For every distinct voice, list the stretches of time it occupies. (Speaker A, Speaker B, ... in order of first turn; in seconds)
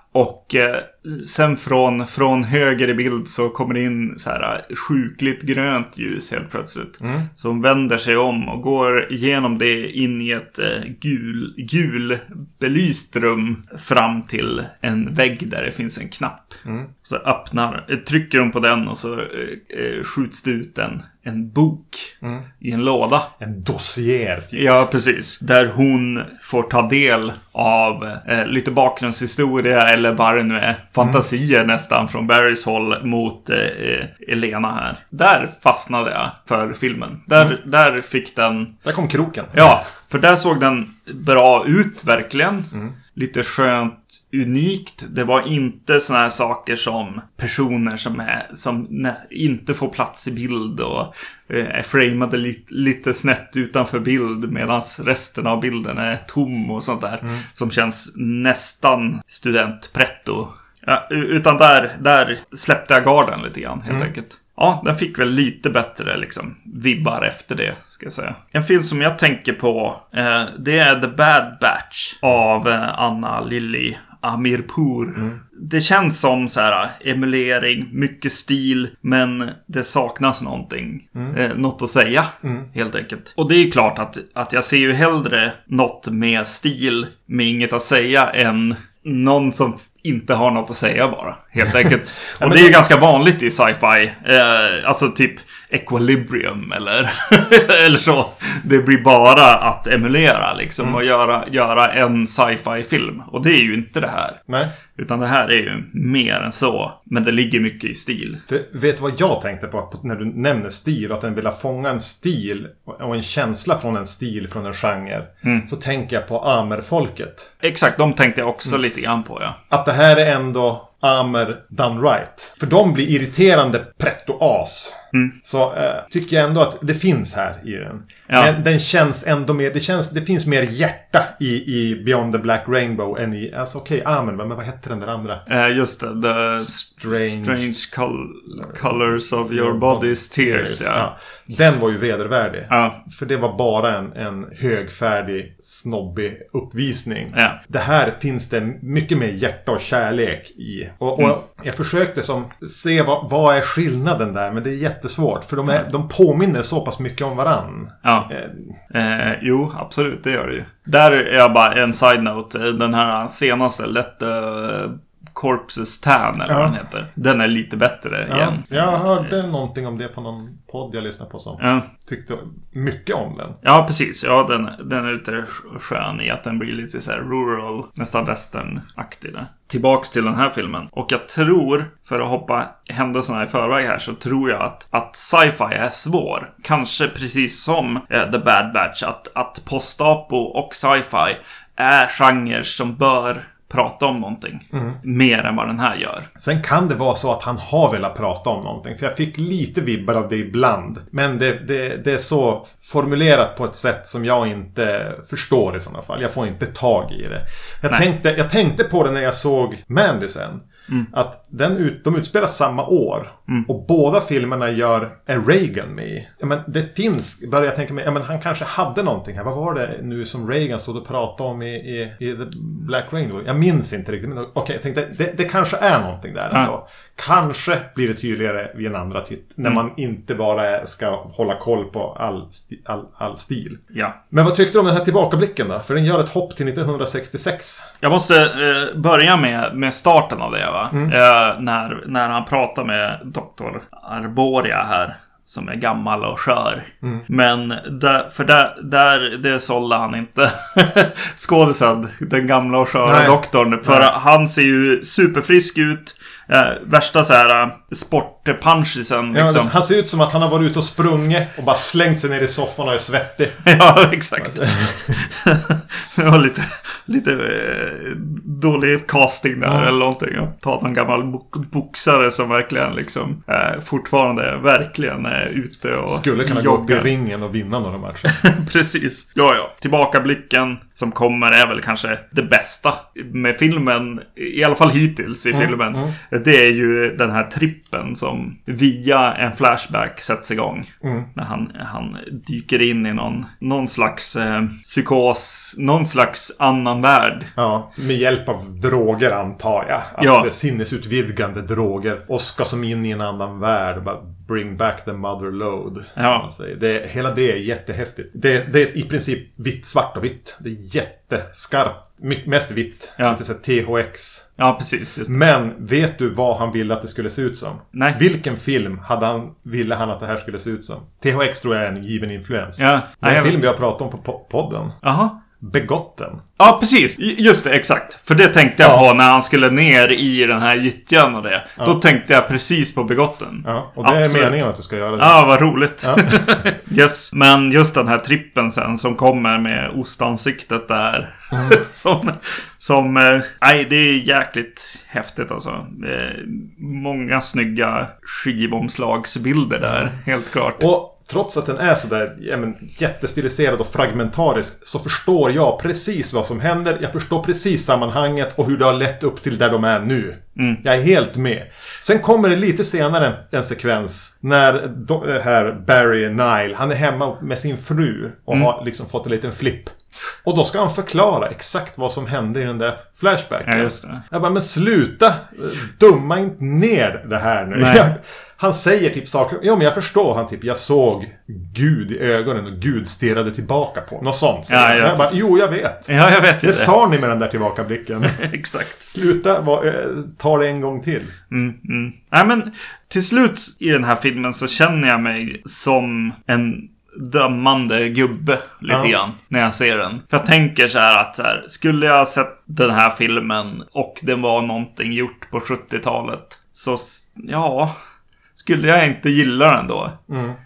Speaker A: 0.1-23.3, 24.6-38.8, 39.5-108.4, 117.6-119.6, 128.3-128.5, 135.5-141.1, 142.7-143.0, 147.3-147.6, 158.0-158.3, 158.9-169.3, 171.6-171.9, 173.6-196.3, 238.0-259.7, 263.6-277.1, 278.2-297.5, 300.2-300.5, 306.2-306.4, 314.6-315.4, 317.9-318.2, 322.8-323.6, 325.0-325.4, 326.6-334.6, 335.2-350.9, 360.6-360.8, 373.6-374.2, 377.8-378.1, 384.7-385.4, 386.1-386.9, 388.2-389.0, 391.5-407.9, 408.6-410.2
Speaker B: 7.0-7.3, 16.6-16.9, 23.4-24.6, 38.8-39.7, 82.4-82.7, 92.3-92.9, 108.5-117.5, 119.7-135.4, 136.3-137.7, 139.5-158.8, 166.5-166.8, 168.3-173.6, 194.7-195.0, 196.4-237.9, 253.0-254.1, 259.3-263.7, 264.4-265.2, 269.6-269.9, 276.1-278.4, 285.5-286.1, 291.0-291.3, 297.6-314.5, 315.3-325.0, 325.6-326.4, 333.6-335.4, 336.0-336.6, 341.5-341.8, 349.8-350.1, 350.8-386.1, 386.6-388.4, 389.0-391.3, 398.9-399.1, 410.3-410.6